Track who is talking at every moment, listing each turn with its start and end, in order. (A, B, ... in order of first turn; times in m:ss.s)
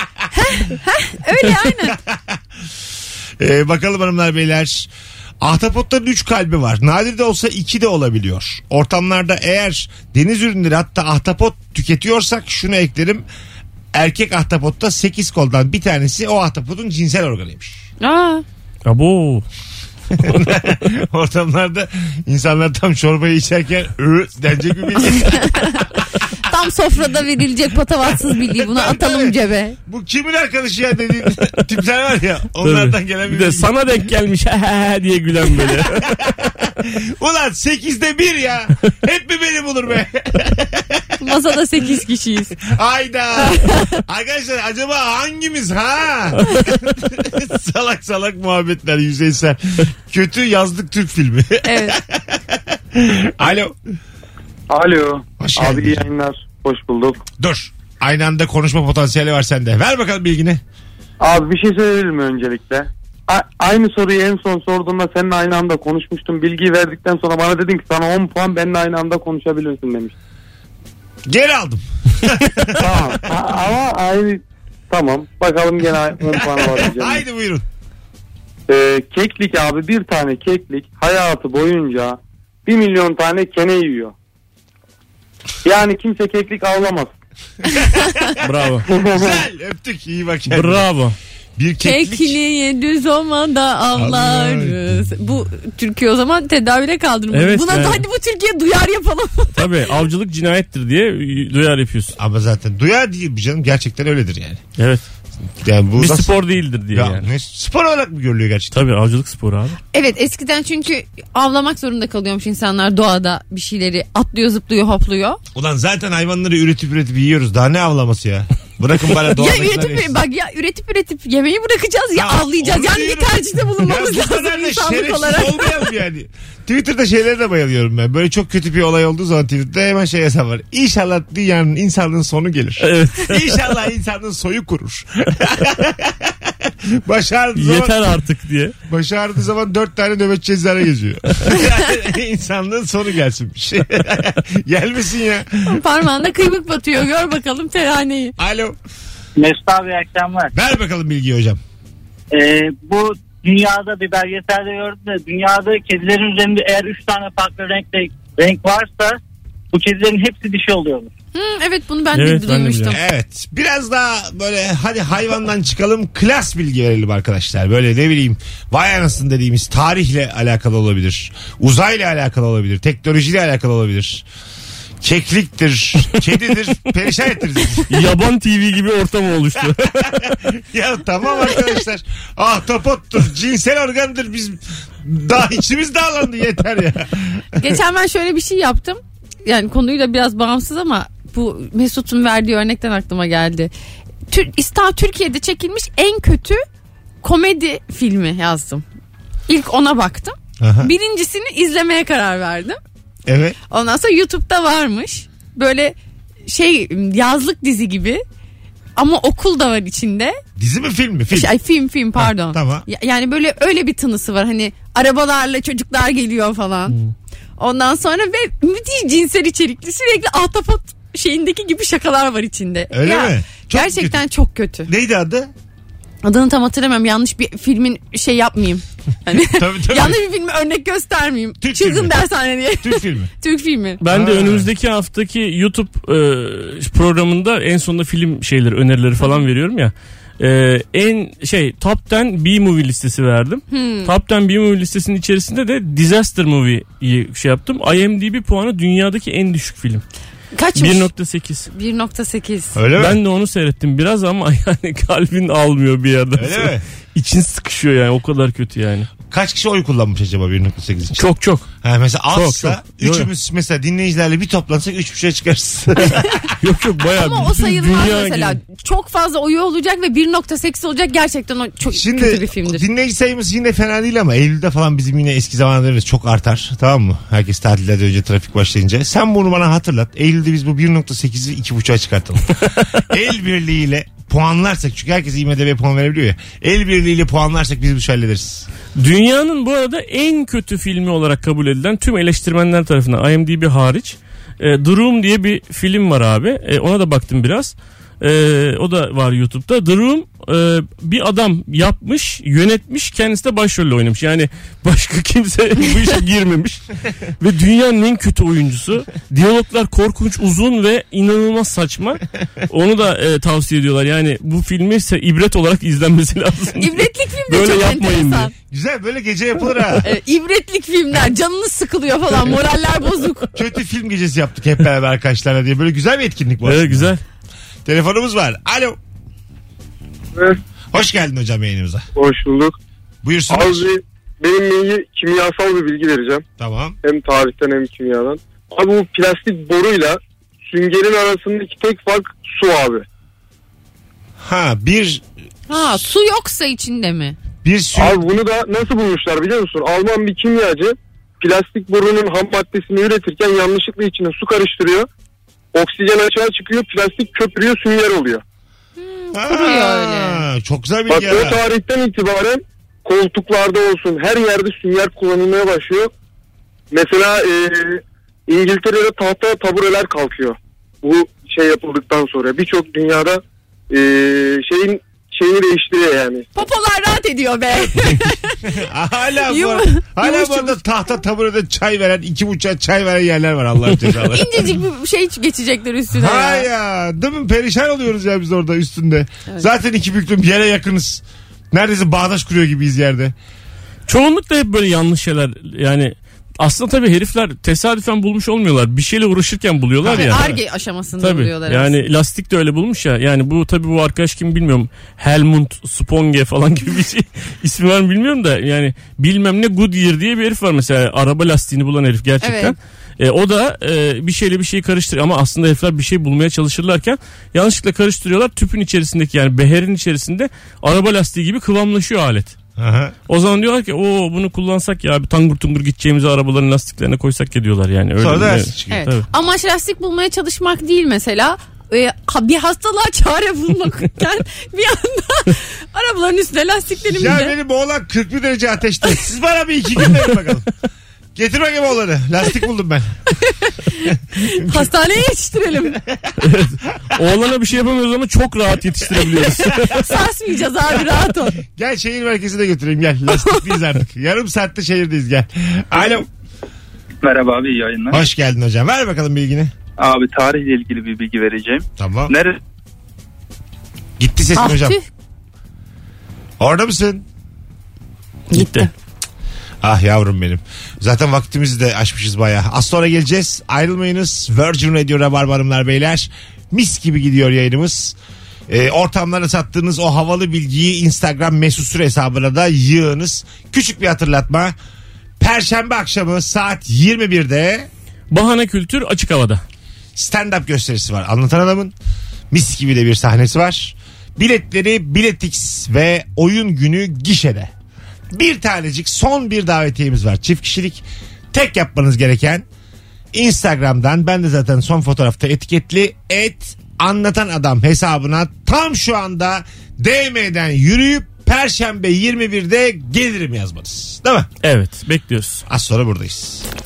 0:00.3-0:02.0 A
0:01.9-0:02.4 B
0:03.4-0:04.9 B
0:05.4-0:13.2 B
0:13.9-0:17.8 B
0:18.0-0:18.4 A
0:18.8-0:19.4 C
0:20.2-0:25.8 B
0:25.1-0:25.8 A
0:26.4-0:29.8 A
0:28.5-0:29.3 B
0:29.8-0:33.7 B
0:32.6-0:36.1 C
0:35.6-0:41.1 B
0:41.2-0:42.6 A
0:42.6-0:53.8 B
0:43.4-0:44.0 A
0:51.6-0:52.0 A
0:54.7-0:57.2 D
0:55.4-0:56.1 B
0:57.4-1:00.6 B
1:01.2-1:10.1 D
1:11.2-1:13.1 B
1:12.8-1:17.2 D
1:16.3-1:17.6 B
1:18.7-1:24.1 D
1:25.6-1:27.1 D
1:27.8-1:28.3 B
1:28.4-1:28.9 C
1:29.0-1:29.2 D
1:29.1-1:30.9 B
1:30.5-1:31.2 C
1:31.6-1:32.4 B
1:31.8-1:39.7 A
1:33.9-1:34.8 B
1:37.3-1:38.0 C
1:39.5-1:42.2 C
1:42.2-1:44.6 B
1:44.8-1:45.0 C
1:45.6-1:46.3 B
1:46.0-1:47.3 C
1:46.9-1:48.8 B
1:48.7-1:49.8 C
1:49.9-1:55.4 A
1:55.5-2:00.2 B
1:59.3-2:05.8 A
2:02.2-2:18.0 B
2:12.8-2:13.4 C
2:17.6-2:18.7 C
2:18.9-2:25.8 B
2:25.6-2:28.3 A
2:28.4-2:28.8 B
2:29.4-2:30.5 E
2:30.5-2:31.6 B
2:32.3-2:39.2 E
2:39.7-2:41.1 E
2:41.3-2:43.0 A
2:42.1-2:42.9 C
2:42.9-2:54.2 B
2:55.0-2:57.9 B
2:57.9-3:00.3 C
3:00.0-3:07.6 B
3:07.6-3:13.7 A
3:14.3-3:16.6 A
3:17.2-3:18.8 A
3:19.5-3:22.8 A
3:20.6-3:20.9 B
3:23.2-3:23.6 B
3:23.7-3:28.2 A
3:29.0-3:30.4 A
3:30.6-3:31.5 B
3:31.3-3:37.0 A
3:32.2-3:32.8 B
3:37.6-3:44.9 A
3:42.9-3:44.2 B
3:44.9-3:45.5 B
3:46.2-3:54.0 A
3:49.4-3:50.2 B
3:51.6-3:52.2 B
3:52.8-3:53.3 B
3:54.0-4:10.0 C
3:54.1-3:54.7 B
4:03.7-4:04.1 A
4:10.5-4:11.1 A
4:10.8-4:11.7 C
4:11.7-4:12.8 A
4:12.7-4:13.2 B
4:13.0-4:19.1 C
4:16.4-4:16.8 B
4:19.3-4:21.2 B
4:21.1-4:21.7 C
4:21.8-4:26.4 B
4:22.3-4:23.3 C
4:26.6-4:28.6 C
4:27.2-4:32.8 A
4:31.9-4:48.7 B
4:49.0-5:06.8 C
5:07.4-5:18.5 C
5:16.8-5:18.5 A
5:18.7-5:20.1 B
5:20.0-5:23.5 A
5:23.5-5:27.1 B
5:26.6-5:27.2 C
5:27.8-5:29.0 B
5:30.9-5:32.0 B
5:32.2-5:32.8 F
5:33.2-5:33.9 B
5:33.5-5:36.4 F
5:36.6-5:37.0 B
5:37.0-5:43.0 F
5:44.4-5:45.2 B
5:45.7-5:47.4 A
5:47.6-5:48.2 B
5:48.0-5:55.1 F
5:55.7-5:58.4 F
5:59.0-6:00.4 A
5:59.3-6:01.6 B
6:01.1-6:06.1 F
6:06.9-6:16.4 F
6:16.5-6:18.6 A
6:18.6-6:24.7 B
6:19.5-6:20.7 A
6:24.3-6:26.7 A
6:26.1-6:33.3 B
6:34.1-6:40.6 C
6:40.0-6:40.4 B
6:40.1-6:42.0 A
6:41.2-7:02.6 C
6:52.4-6:52.8 A
7:02.8-7:03.1 B
7:03.3-7:09.2 C
7:08.2-7:09.0 B
7:08.9-7:17.5 A
7:17.1-7:20.7 B
7:21.3-7:23.1 B
7:23.5-7:26.0 A
7:24.6-7:24.9 B
7:26.0-7:26.3 B
7:26.4-7:30.1 C
7:29.8-7:31.6 A
7:31.7-7:36.3 B
7:33.3-7:33.6 A
7:37.2-7:38.2 G
7:38.1-7:39.7 B
7:40.0-7:42.6 G
7:42.0-7:42.3 B
7:44.2-7:45.0 B
7:44.6-7:45.0 A
7:46.6-7:47.2 B
7:48.5-7:48.9 A
7:48.5-7:48.9 C
7:49.8-7:58.2 B
7:58.7-8:04.7 B
8:05.4-8:07.9 B
8:08.3-8:09.6 C
8:10.2-8:11.9 B
8:12.5-8:17.7 B
8:18.3-8:22.6 B
8:23.3-8:34.5 B
8:34.6-8:35.6 C
8:35.7-8:36.6 B